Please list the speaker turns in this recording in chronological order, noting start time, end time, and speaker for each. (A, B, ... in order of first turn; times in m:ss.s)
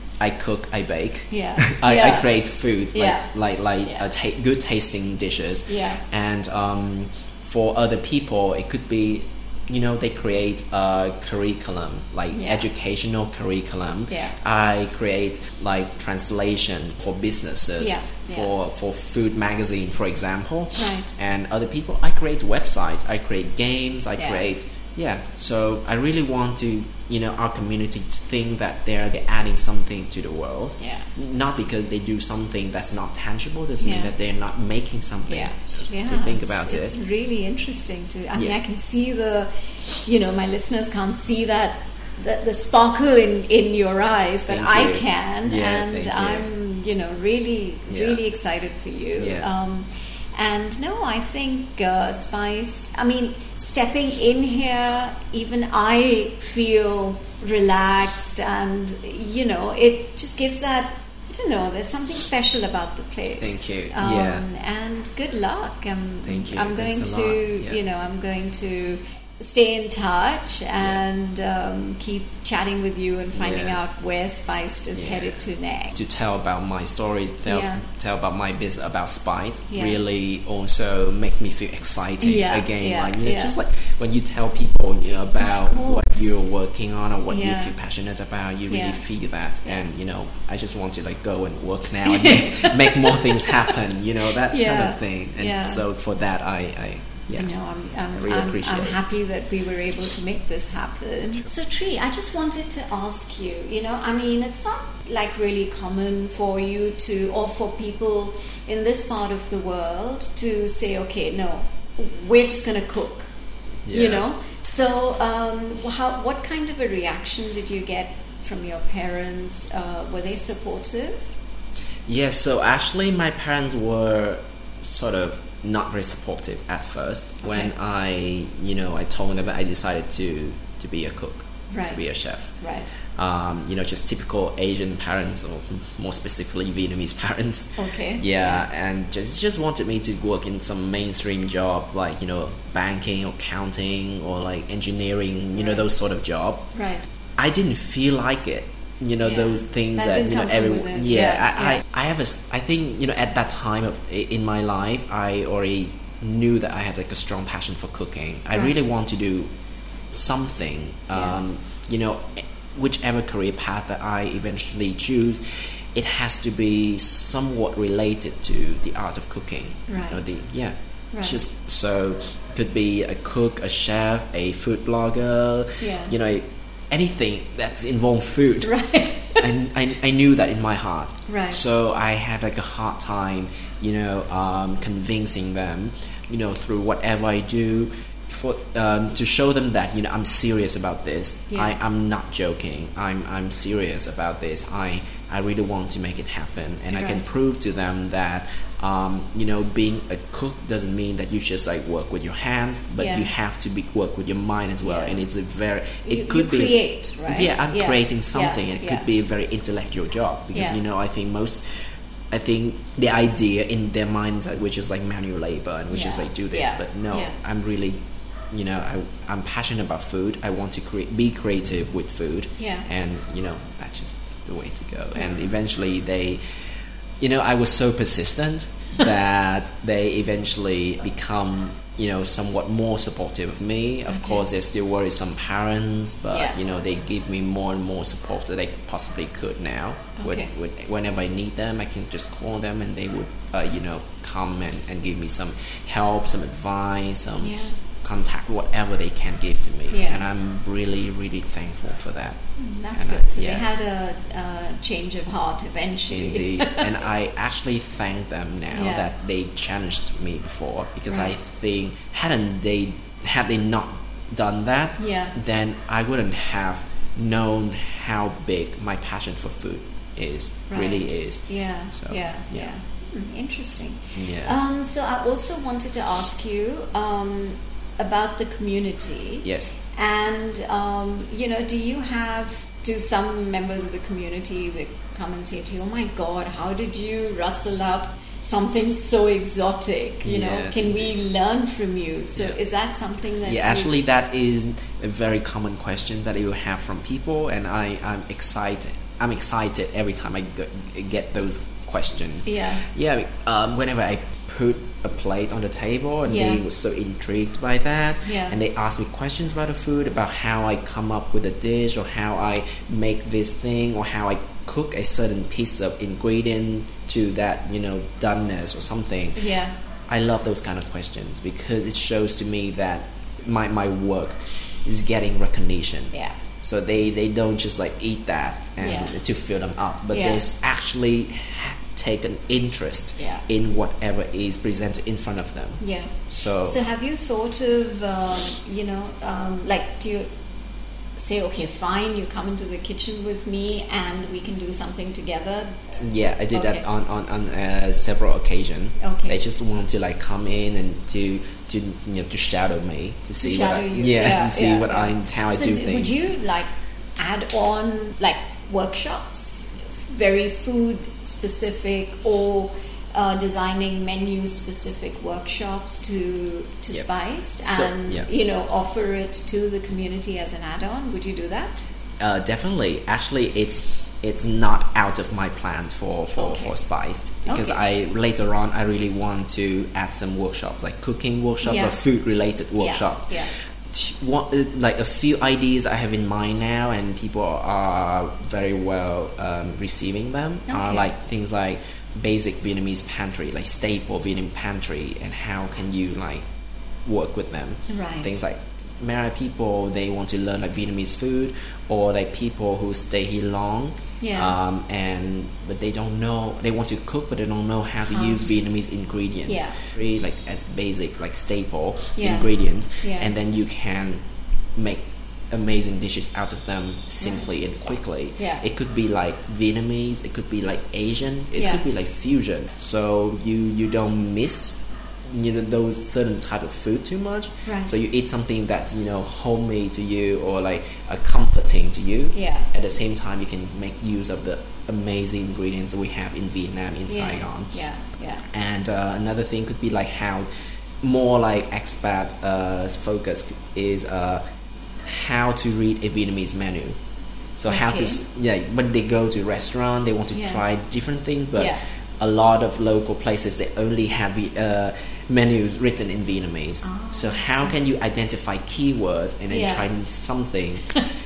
0:00.2-0:37.0 A
0:01.3-0:02.3 B
0:03.0-0:03.3 B
0:05.7-0:06.0 B
0:12.3-0:12.7 B
0:14.1-0:14.4 B
0:17.8-0:18.5 B
0:20.8-0:21.2 B
0:24.2-0:24.4 B
0:30.8-0:31.1 B
0:33.8-0:34.1 B
0:35.3-0:39.5 B
0:40.0-1:16.0 B
0:44.5-0:46.5 A
0:47.9-0:48.2 A
0:49.2-0:49.5 A
1:03.4-1:04.4 A
1:06.2-1:07.8 A
1:13.4-1:13.8 A
1:14.9-1:37.5 A
1:17.5-1:17.8 B
1:19.7-1:20.0 B
1:22.2-1:23.6 B
1:25.4-1:26.3 B
1:27.3-1:27.8 B
1:28.7-1:29.0 B
1:32.1-1:33.8 B
1:34.5-1:35.8 B
1:37.4-1:53.3 B
1:38.2-1:39.0 A
1:53.9-1:54.2 A
1:53.9-2:01.3 B
2:02.1-2:12.5 A
2:07.4-2:07.7 B
2:11.7-2:12.1 B
2:12.6-2:13.0 B
2:13.1-2:26.7 A
2:17.8-2:18.7 B
2:25.6-2:25.9 B
2:26.7-2:27.1 B
2:27.4-2:39.5 A
2:29.2-2:31.8 B
2:38.5-2:38.8 B
2:40.1-3:46.4 A
2:41.1-2:41.4 B
2:49.9-2:50.4 B
2:51.1-2:51.4 B
2:55.8-2:56.2 B
2:58.6-2:59.5 B
3:01.3-3:01.7 B
3:11.5-3:11.8 B
3:16.9-3:17.3 B
3:23.0-3:23.3 B
3:24.8-3:25.2 B
3:26.1-3:29.1 B
3:30.5-3:30.8 B
3:35.9-3:37.4 B
3:42.6-3:42.9 B
3:45.2-3:45.6 B
3:47.2-4:12.4 A
3:54.1-3:54.4 B
3:56.3-3:56.6 B
4:00.2-4:00.5 B
4:07.4-4:07.8 B
4:09.9-4:10.2 B
4:12.6-4:16.9 B
4:12.9-4:13.7 A
4:16.1-4:32.7 A
4:18.7-4:19.1 B
4:21.1-4:21.5 B
4:25.0-4:25.4 B
4:30.7-4:54.0 B
4:34.2-4:34.6 A
4:39.4-4:39.8 A
4:50.2-4:51.1 A
4:53.4-5:19.4 A
5:02.5-5:02.9 B
5:06.3-5:06.6 B
5:08.2-5:08.6 B
5:19.4-5:19.8 B
5:20.1-5:36.8 A
5:26.1-5:26.4 B
5:28.8-5:29.2 B
5:30.1-5:30.4 B
5:33.2-5:33.4 B
5:35.8-5:40.3 B
5:41.2-5:46.8 B
5:46.0-5:56.2 A
5:49.0-5:49.4 B
5:53.4-6:11.8 B
6:07.6-6:08.3 A
6:12.2-6:23.4 A
6:16.4-6:16.8 B
6:17.4-6:17.8 B
6:21.6-6:22.0 B
6:22.8-6:23.5 B
6:23.9-6:36.4 A
6:30.7-6:31.1 B
6:37.0-6:54.2 A
6:37.9-6:38.4 B
6:44.2-6:44.6 B
6:48.1-6:48.6 B
6:49.5-6:49.8 B
6:52.2-6:52.5 B
6:53.0-6:53.3 B
6:54.8-7:17.7 A
6:57.2-6:57.6 B
6:58.4-6:58.6 B
7:01.6-7:01.8 B
7:07.7-7:08.0 B
7:12.3-7:12.7 B
7:17.1-7:18.5 B
7:18.5-7:20.5 A
7:21.0-7:24.4 A
7:25.0-7:27.0 A
7:27.6-7:40.9 A
7:27.7-7:28.2 B
7:30.3-7:30.6 B
7:31.6-7:31.8 B
7:36.8-7:37.8 B
7:39.5-7:39.9 B